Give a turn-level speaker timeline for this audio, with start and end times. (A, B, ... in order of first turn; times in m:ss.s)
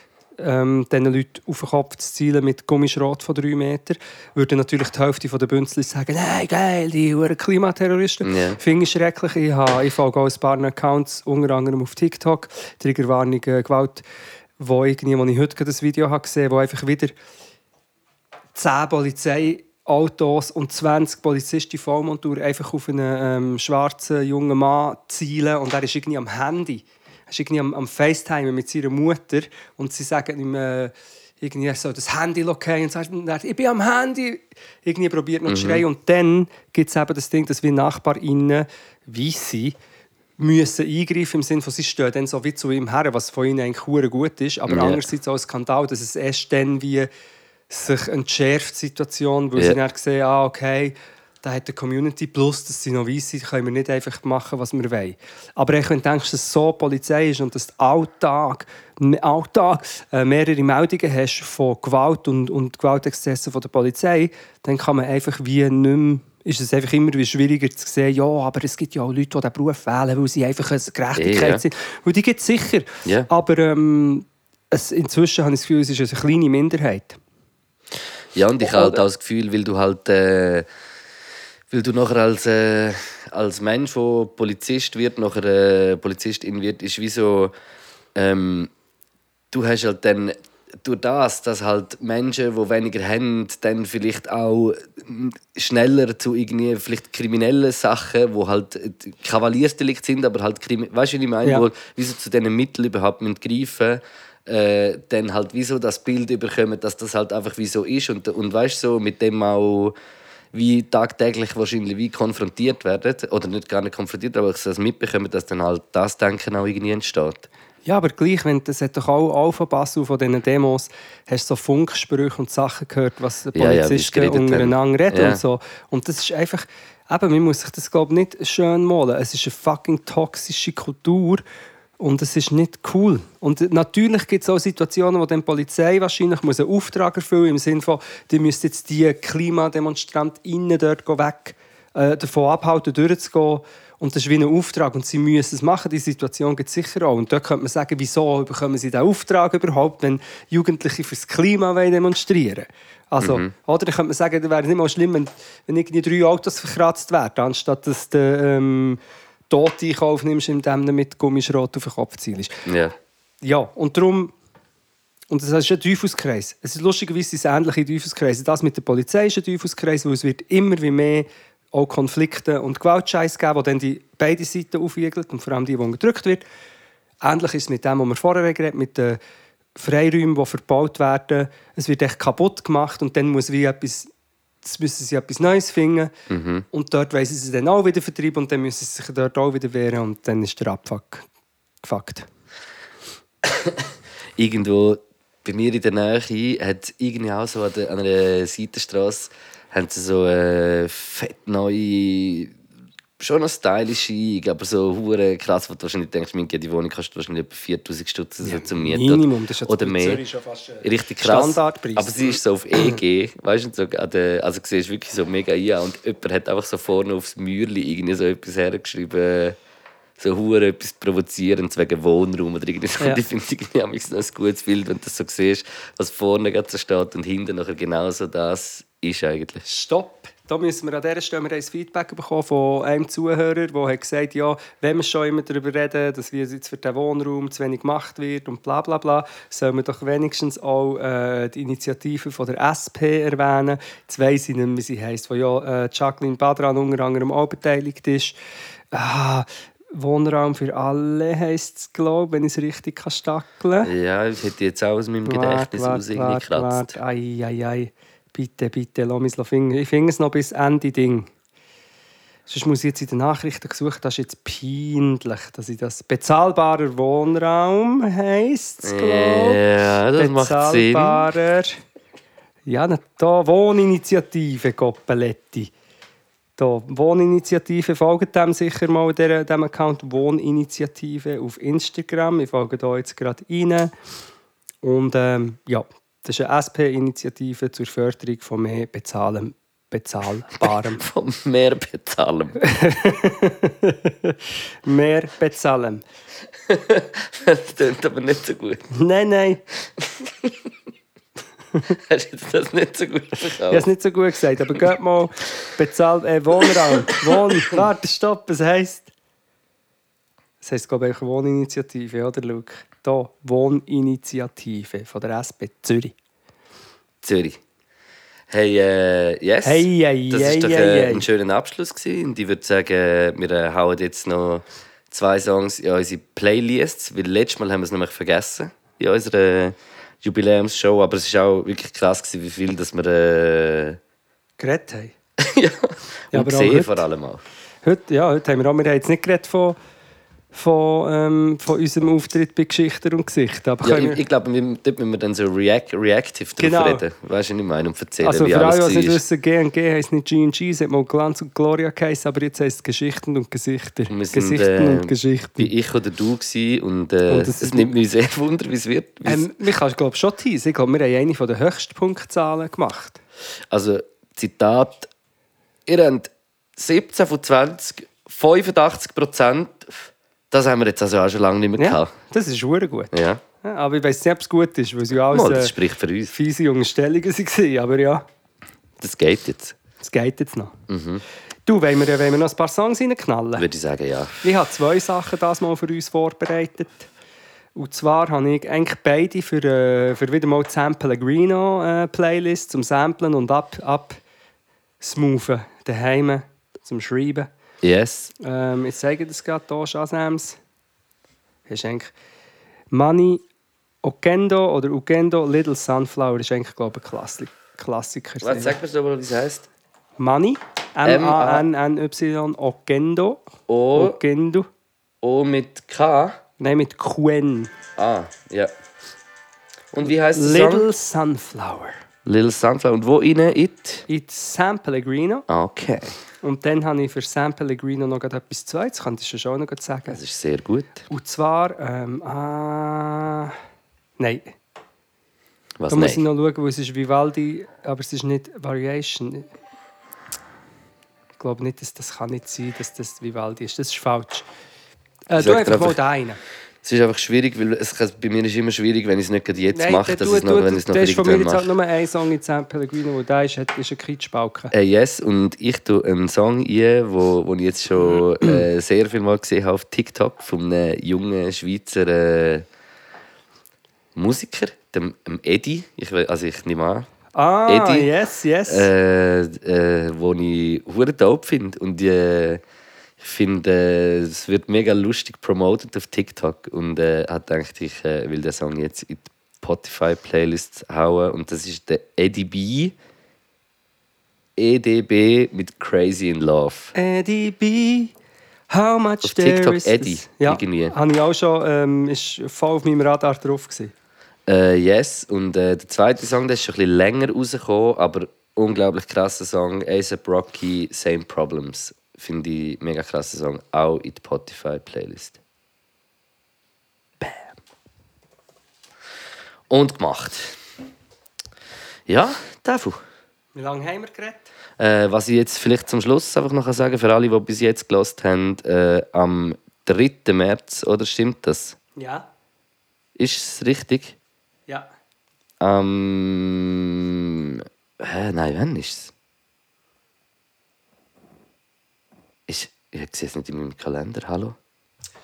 0:00.4-0:14.0 A
0:08.2-0:08.6 B
0:14.6-0:17.1 A
0:18.6-0:39.8 A
0:35.5-0:35.8 B
0:40.4-0:47.1 A
0:44.7-0:45.0 B
0:47.7-1:17.2 A
1:11.2-1:11.6 B
1:18.3-1:20.7 B
1:18.6-1:19.0 A
1:21.7-1:27.5 B
1:28.2-1:28.7 B
1:29.5-1:50.0 B
1:50.5-1:57.5 B
1:57.8-2:11.4 A
2:03.6-2:05.4 B
2:12.0-2:39.0 A
2:33.2-2:33.5 B
2:39.5-2:42.7 A
2:42.7-2:42.9 B
2:43.4-2:44.3 A
2:45.3-2:56.4 A
2:57.2-2:59.2 A
2:59.8-3:04.1 A
3:04.6-3:06.1 A
3:06.3-3:06.7 B
3:06.7-3:11.3 A
3:11.8-3:12.3 A
3:13.4-3:22.5 B
3:23.2-3:30.2 B
3:28.4-3:33.0 A
3:30.8-3:39.6 B
3:40.2-3:49.6 B
3:49.7-4:08.4 A
4:08.9-4:13.9 A
4:13.8-4:17.0 B
4:15.3-4:21.3 A
4:22.5-4:29.6 A
4:28.8-4:31.3 B
4:30.2-4:31.8 A
4:32.7-4:35.7 A
4:36.6-4:43.9 A
4:44.8-4:51.0 A
4:50.6-4:52.6 B
4:52.6-4:56.0 A
4:56.7-4:58.9 B
4:58.9-4:59.6 A
5:00.0-5:00.6 B
5:01.9-5:03.9 B
5:03.7-5:09.1 A
5:06.6-5:07.9 B
5:10.6-5:16.2 A
5:17.2-5:17.6 B
5:18.5-5:34.0 B
5:19.6-5:21.3 A
5:34.6-5:35.2 A
5:35.4-5:37.4 B
5:36.3-5:37.0 A
5:37.8-5:39.8 A
5:40.5-5:44.2 A
5:43.8-5:49.2 B
5:46.6-5:47.0 A
5:48.2-5:55.7 A
5:54.1-5:59.5 B
5:57.3-5:57.9 A
5:59.2-6:03.2 A
6:03.7-6:05.1 B
6:05.9-6:12.1 B
6:11.8-6:13.1 A
6:13.1-6:13.4 B
6:13.6-6:15.7 A
6:15.3-6:16.3 B
6:16.3-6:18.2 A
6:19.0-6:19.8 B
6:20.0-6:20.8 A
6:20.9-6:21.2 B
6:21.7-6:23.7 A
6:23.6-6:24.5 B
6:24.4-6:27.1 A
6:27.8-6:34.2 A
6:35.0-6:37.5 A
6:37.8-6:38.3 B
6:38.4-6:40.6 A
6:41.7-6:42.1 A
6:42.9-6:43.4 A
6:44.0-6:48.8 A
6:48.4-6:49.7 B
6:50.2-6:54.7 A
6:51.0-6:51.7 B
6:53.7-6:54.2 B
6:55.2-6:56.4 B
6:56.6-6:57.7 A
6:58.0-6:58.7 B
6:59.9-7:00.9 B
7:00.3-7:02.0 A
7:02.2-7:04.1 B
7:04.1-7:05.5 A
7:05.5-7:06.2 B
7:06.4-7:10.2 A
7:10.1-7:11.1 B
7:11.1-7:13.6 A
7:14.2-7:14.6 A
7:15.8-7:16.2 B
7:15.9-7:19.5 A
7:21.4-7:24.5 A
7:25.3-7:26.4 A
7:25.4-7:26.0 B
7:26.8-7:31.7 B
7:29.7-7:34.7 A
7:34.7-7:42.7 B
7:44.2-7:47.1 B
7:47.4-7:48.9 A
7:47.7-7:48.1 B
7:48.7-7:52.6 B
7:53.2-8:03.0 B
8:04.6-8:06.9 B
8:07.0-8:08.1 A
8:08.7-8:13.9 A
8:09.2-8:11.0 B
8:14.5-8:25.4 B
8:27.2-8:27.5 B
8:29.7-8:30.6 B
8:32.1-8:33.0 B
8:33.6-8:34.5 A
8:34.8-8:41.8 B
8:42.0-8:42.3 A
8:43.2-8:44.2 B
8:45.6-8:49.1 B
8:52.5-8:54.6 B